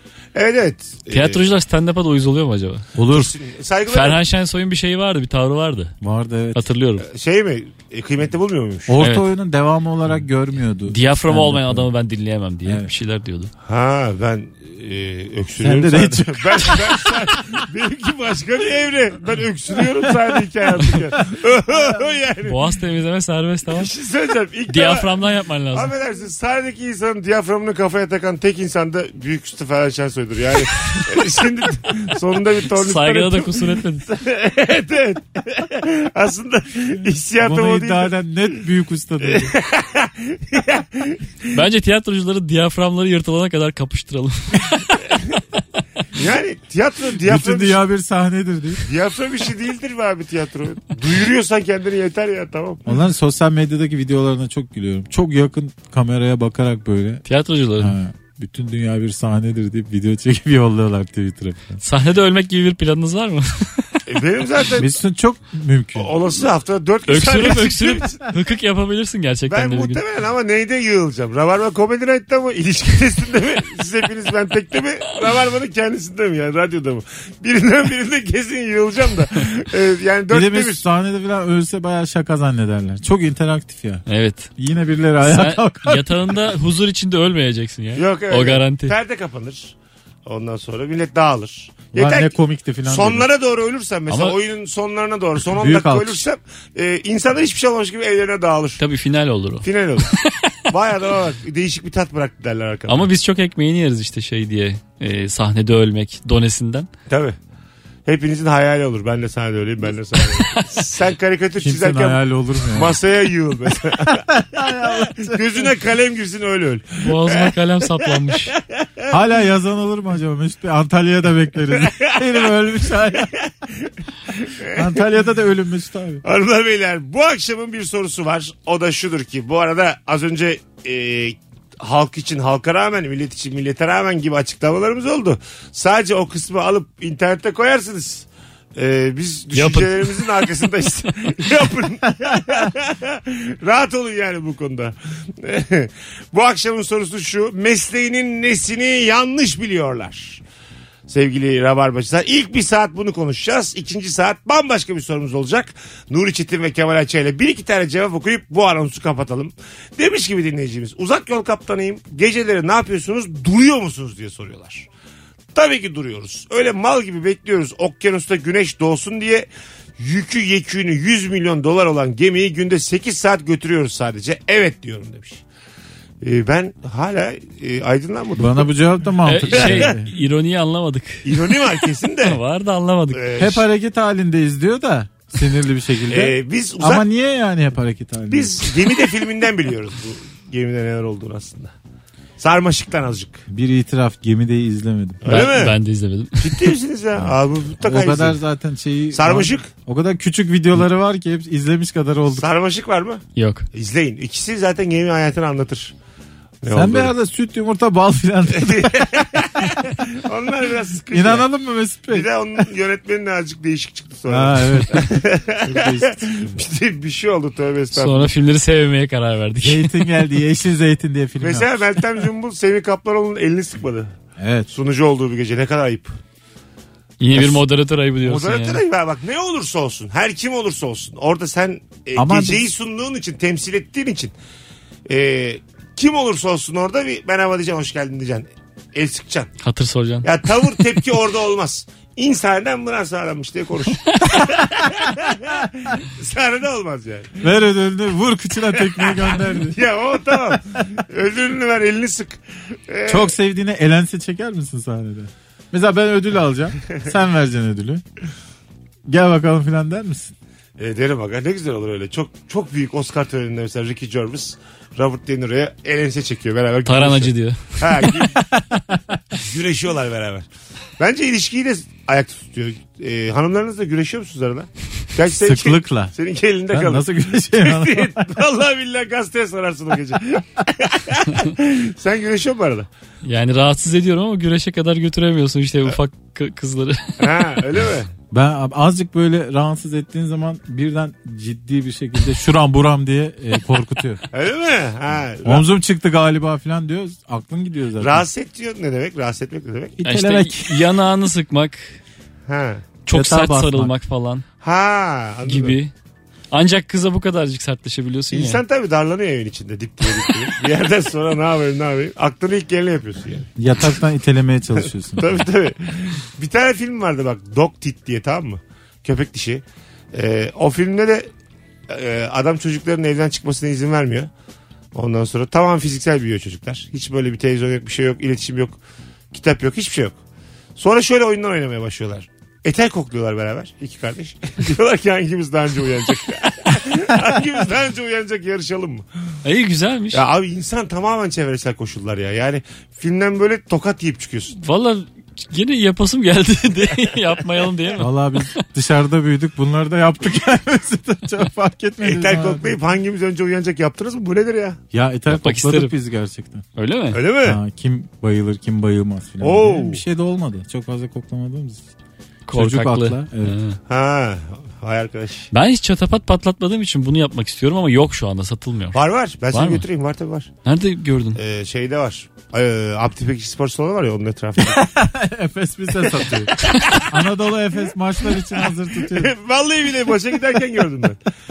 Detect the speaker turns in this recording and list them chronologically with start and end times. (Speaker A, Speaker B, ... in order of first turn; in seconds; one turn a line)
Speaker A: 0.3-1.5
Speaker B: 1.1-2.9
Speaker C: 3.0-3.3
Speaker A: 3.1-4.2
Speaker B: 3.9-5.9
Speaker C: 6.0-6.7
Speaker B: 6.5-7.0
Speaker A: 7.0-9.0
Speaker C: 8.9-11.9
Speaker B: 9.0-9.3
Speaker B: 10.9-13.5
Speaker C: 12.6-12.9
Speaker A: 13.6-22.6
Speaker C: 15.6-17.1
Speaker B: 22.4-23.9
Speaker A: 23.7-38.2
Speaker B: 24.7-25.9
Speaker B: 32.7-34.1
Speaker C: 37.4-39.5
Speaker A: 39.2-41.5
Speaker B: 41.5-45.0
Speaker A: 45.1-45.4
Speaker A: 46.1-47.8
Speaker C: 47.2-48.9
Speaker A: 48.8-52.8
Speaker C: 52.9-57.2
Speaker B: 57.2-57.9
Speaker C: 57.8-61.8
Speaker B: 61.8-64.0
Speaker A: 64.1-65.0
Speaker C: 64.8-66.2
Speaker A: 66.0-68.3
Speaker B: 67.1-70.0
Speaker A: 69.5-80.8
Speaker C: 80.3-84.0
Speaker B: 84.1-84.5
Speaker C: 84.6-86.3
Speaker B: 85.2-88.9
Speaker A: 88.0-89.7
Speaker A: 90.2-92.3
Speaker C: 91.9-93.3
Speaker A: 92.8-98.8
Speaker B: 94.1-94.3
Speaker C: 95.5-96.2
Speaker B: 98.8-100.5
Speaker A: 99.6-103.1
Speaker B: 102.9-106.9
Speaker A: 107.1-107.3
Speaker A: 108.0-114.3
Speaker C: 111.6-113.0
Speaker C: 114.3-115.7
Speaker A: 114.8-119.1
Speaker B: 117.0-118.5
Speaker C: 119.1-123.3
Speaker A: 121.8-122.5
Speaker A: 123.1-125.0
Speaker C: 124.7-126.2
Speaker A: 126.2-150.4
Speaker B: 139.5-140.5
Speaker A: 151.1-164.9
Speaker A: 165.5-175.4
Speaker A: 176.2-178.7
Speaker C: 178.4-180.1
Speaker B: 179.2-181.7
Speaker A: 179.6-179.9
Speaker A: 181.2-182.4
Speaker B: 182.2-183.3
Speaker A: 183.1-183.6
Speaker C: 183.4-188.6
Speaker A: 186.1-187.0
Speaker A: 188.3-191.7
Speaker A: 192.4-193.4
Speaker C: 193.5-195.4
Speaker A: 195.2-195.8
Speaker B: 195.2-196.7
Speaker A: 196.4-198.4
Speaker C: 197.2-202.4
Speaker A: 199.1-199.7
Speaker A: 202.3-205.9
Speaker B: 203.3-203.7
Speaker A: 206.6-207.1
Speaker C: 206.7-209.7
Speaker A: 208.5-211.5
Speaker C: 211.1-212.3
Speaker A: 212.1-218.3
Speaker C: 214.3-216.5
Speaker B: 217.9-220.0
Speaker C: 219.6-222.0
Speaker A: 221.4-224.1
Speaker C: 224.4-224.7
Speaker A: 224.7-226.1
Speaker B: 227.2-228.8
Speaker A: 227.3-227.6
Speaker A: 228.2-234.3
Speaker C: 232.2-232.7
Speaker A: 235.1-239.5
Speaker B: 239.6-240.3
Speaker A: 240.2-247.4
Speaker C: 247.4-249.8
Speaker A: 248.7-253.3
Speaker C: 250.3-250.6
Speaker C: 253.1-258.0
Speaker C: 259.1-260.3
Speaker A: 260.8-268.4
Speaker B: 266.9-268.1
Speaker C: 268.2-269.4
Speaker A: 269.3-270.5
Speaker A: 271.0-282.9
Speaker C: 275.4-276.1
Speaker C: 276.7-278.2
Speaker B: 283.2-287.2
Speaker A: 287.2-288.1
Speaker C: 288.3-294.2
Speaker A: 294.3-295.6
Speaker C: 295.4-298.3
Speaker A: 298.0-300.0
Speaker C: 300.0-300.9
Speaker B: 300.0-302.0
Speaker A: 302.5-302.8
Speaker B: 303.1-304.4
Speaker C: 303.1-303.9
Speaker A: 304.6-305.8
Speaker B: 305.4-305.9
Speaker B: 306.5-308.6
Speaker A: 308.3-313.5
Speaker C: 313.6-315.4
Speaker A: 315.1-321.3
Speaker A: 321.9-324.3
Speaker A: 324.9-328.8
Speaker A: 329.3-330.2
Speaker A: 330.8-339.1
Speaker B: 339.4-340.2
Speaker A: 340.1-344.6
Speaker B: 344.6-348.5
Speaker C: 348.0-352.8
Speaker A: 352.0-354.8
Speaker C: 354.9-356.6
Speaker B: 355.3-355.9
Speaker B: 356.8-357.2
Speaker A: 357.1-357.6
Speaker C: 357.4-361.8
Speaker A: 359.4-360.0
Speaker B: 362.4-363.8
Speaker C: 362.5-363.6
Speaker A: 363.9-365.5
Speaker B: 365.5-369.0
Speaker A: 368.9-370.5
Speaker B: 369.5-369.9
Speaker B: 370.6-371.4
Speaker A: 371.4-374.9
Speaker C: 374.6-379.3
Speaker A: 376.6-377.1
Speaker A: 378.4-381.2